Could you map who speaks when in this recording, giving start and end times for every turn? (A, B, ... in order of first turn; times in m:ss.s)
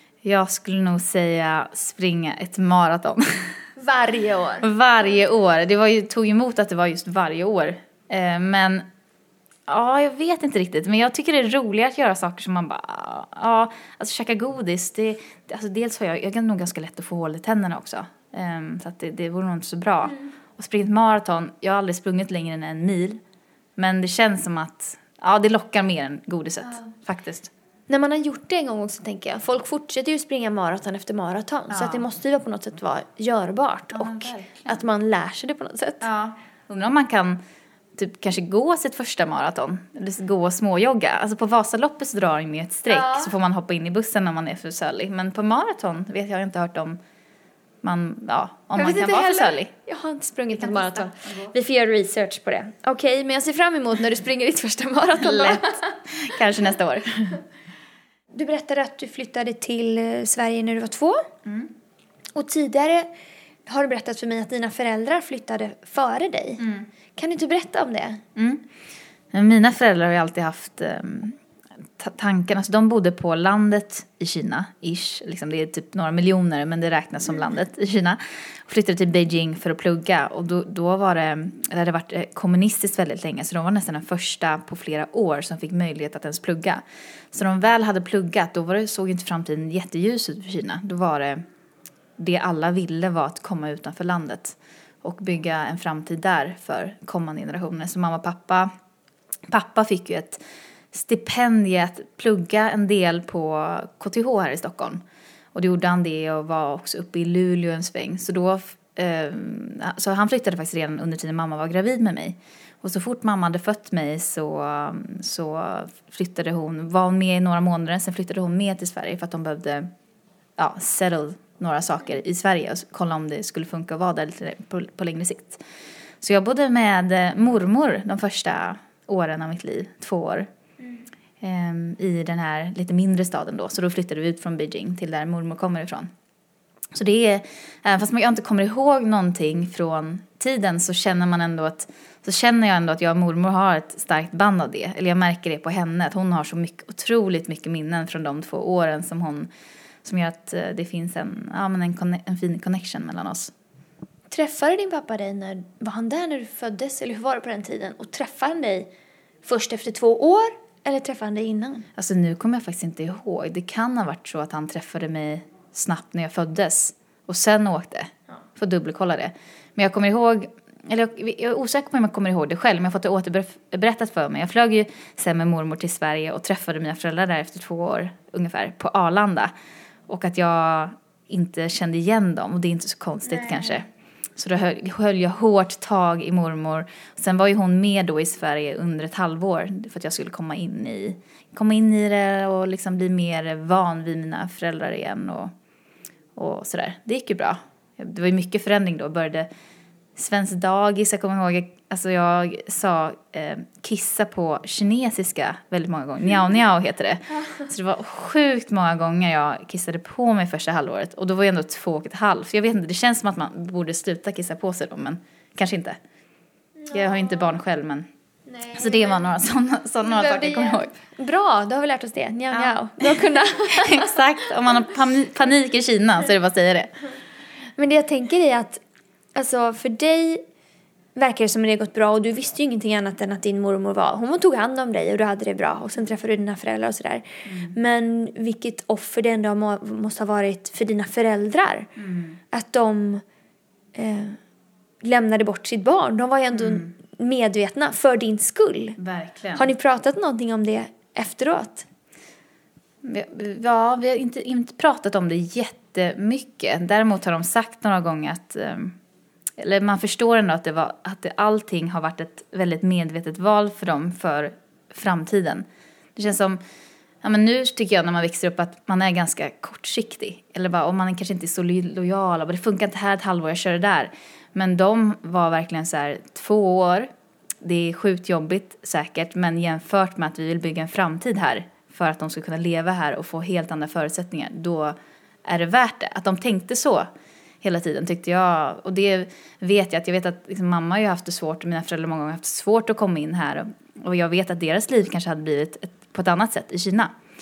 0:00.2-0:03.6 A
0:03.8-0:04.7 B
0:04.6-0:08.8 A
0:09.7-0:23.2 A
0:23.8-0:27.5 A
0:27.9-0:36.0 B
0:31.7-0:32.0 A
0:33.9-0:34.8 A
0:36.0-0:37.4 A
0:38.0-0:47.0 A
0:42.9-0:43.3 B
0:47.8-0:49.7 A
0:48.8-0:55.8 B
0:50.5-0:51.5 A
0:55.2-0:57.4 A
0:58.3-1:01.3 B
1:01.4-1:01.7 A
1:02.4-1:03.1 B
1:03.7-1:06.6 B
1:06.6-1:06.9 A
1:07.2-1:08.2 B
1:08.4-1:08.6 A
1:09.3-1:11.4 A
1:12.0-1:31.4 A
1:32.2-1:38.7 A
1:39.5-1:40.4 A
1:40.9-1:45.0 A
1:45.5-1:59.9 A
2:00.6-2:05.6 A
2:06.2-2:10.5 A
2:11.4-2:16.1 A
2:16.9-2:29.5 A
2:30.0-2:33.5 A
2:34.3-2:38.9 B
2:39.4-2:41.9 B
2:42.0-2:59.5 A
3:00.1-3:15.5 A
3:16.4-3:19.5 A
3:20.2-3:36.0 A
3:36.9-3:38.1 A
3:38.5-3:39.1 B
3:38.7-3:40.9 A
3:40.1-3:44.2 B
3:42.5-3:46.9 A
3:47.8-3:48.8 B
3:49.4-3:50.4 B
3:51.2-4:01.9 B
3:57.4-3:57.8 A
4:02.0-4:02.4 A
4:02.5-4:03.2 B
4:04.0-4:04.4 B
4:05.0-4:09.0 B
4:06.6-4:06.9 A
4:09.0-4:09.7 A
4:09.6-4:11.9 B
4:13.0-4:19.0 A
4:19.6-4:25.6 A
4:26.2-4:26.6 A
4:27.2-4:37.1 A
4:37.6-4:47.1 A
4:47.6-4:57.1 A